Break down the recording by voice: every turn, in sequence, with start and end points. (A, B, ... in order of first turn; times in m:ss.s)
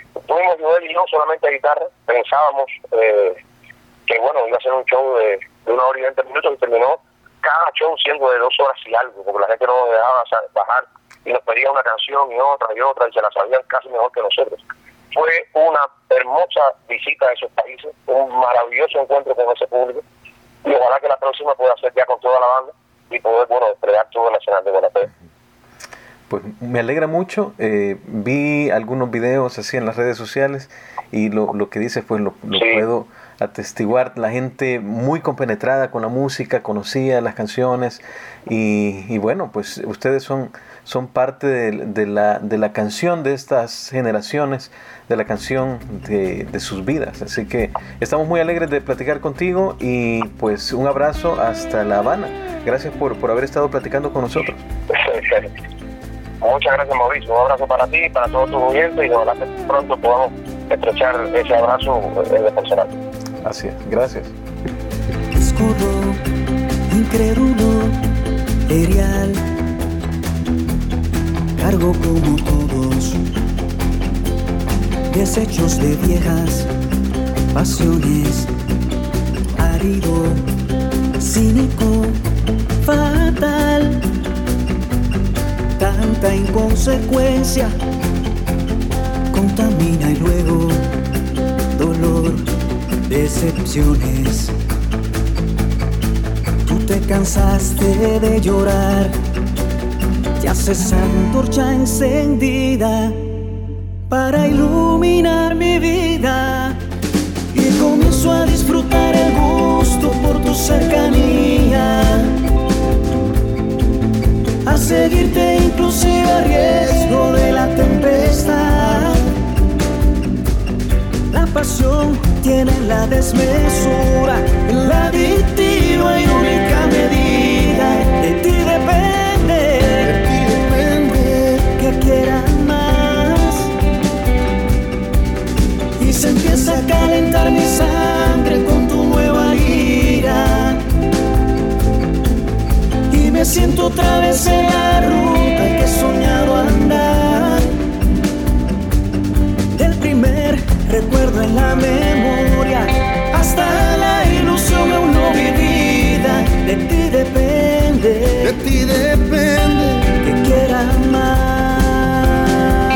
0:00.2-0:03.4 A
0:04.1-0:14.6 A
0:15.1-0:20.0 A
0:20.6-0:25.1 A
0:26.3-0:54.6 B
0:32.5-0:32.8 A
0:54.9-0:55.5 A
0:56.4-1:03.0 A
1:03.4-1:04.3 B
1:05.4-1:06.2 C
1:06.9-1:08.0 C
1:08.7-1:09.4 C
1:11.6-1:13.2 C
1:15.1-1:16.7 C
1:17.5-1:18.5 C
1:19.6-1:20.5 C
1:21.2-1:22.2 C
1:22.8-1:24.0 C
1:25.8-1:27.8 C
1:29.3-1:30.9 C
1:31.8-1:32.5 C
1:33.1-1:34.5 C
1:36.6-1:39.2 C
1:40.4-1:43.4 C
1:44.1-1:46.8 C
1:47.5-1:52.4 C
1:54.7-1:59.3 C
2:01.3-2:10.1 C
2:10.0-2:11.7 D
2:11.8-2:13.7 C
2:16.0-2:20.8 C
2:23.1-2:27.7 C
2:29.7-2:38.6 C
2:38.4-2:40.1 D
2:40.2-2:42.5 C